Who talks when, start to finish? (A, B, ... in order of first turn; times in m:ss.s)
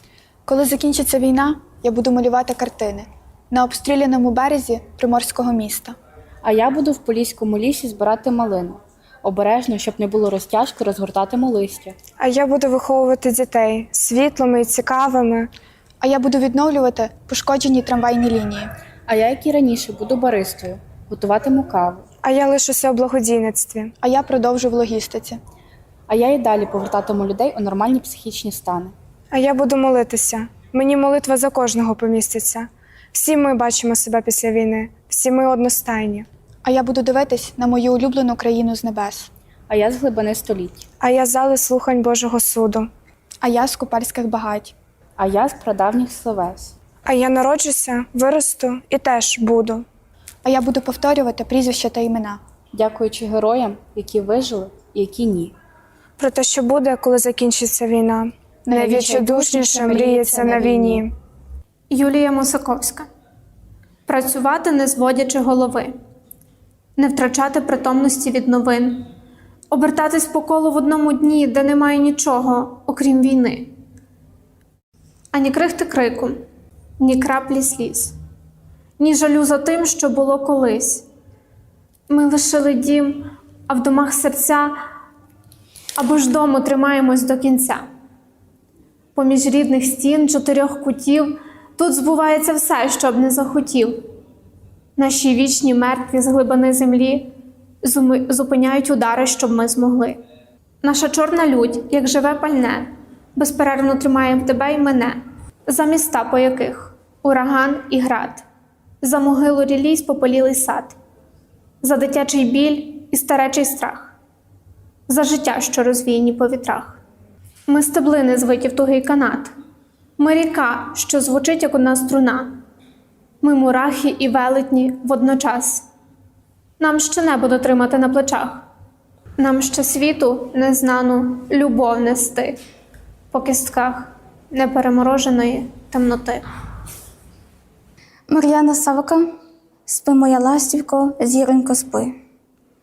0:00.5-0:05.9 A
0:06.4-0:12.0 B
0:12.2-0:15.5 C
0:16.0-0:18.7 A
0:19.1-0:22.0 B
0:22.2-0:23.9 C
0:24.0-0:25.4 A
0:26.1-0:29.0 B
0:29.3-0:36.3 C
0:36.6-0:39.3 A
0:39.7-0:40.8 B
0:41.0-0:42.9 C
0:43.4-0:44.7 A
0:45.2-0:46.7 B
0:47.0-0:49.8 C
0:50.4-0:52.4 A
0:52.7-0:55.5 B
0:56.2-1:01.1 C
0:58.7-1:00.4 A
0:59.9-1:01.1 B
1:01.9-1:03.1 D
1:04.1-1:05.9 D
1:07.0-1:09.1 D
1:09.7-1:13.7 D
1:15.3-1:16.4 D
1:17.0-1:18.1 D
1:19.0-1:21.1 D
1:22.1-1:24.7 D
1:26.0-1:27.8 D
1:29.2-1:34.0 D
1:35.0-1:37.3 D
1:37.8-1:40.2 D
1:40.8-1:45.2 D
1:45.7-1:48.4 D
1:49.0-1:51.0 D
1:51.8-1:54.1 D
1:55.1-1:57.0 D
1:57.7-1:59.5 D
2:00.2-2:02.5 D
2:03.4-2:05.8 D
2:06.8-2:08.6 D
2:09.4-2:12.6 D
2:13.3-2:16.4 D
2:18.3-2:19.2 E
2:19.9-2:22.1 E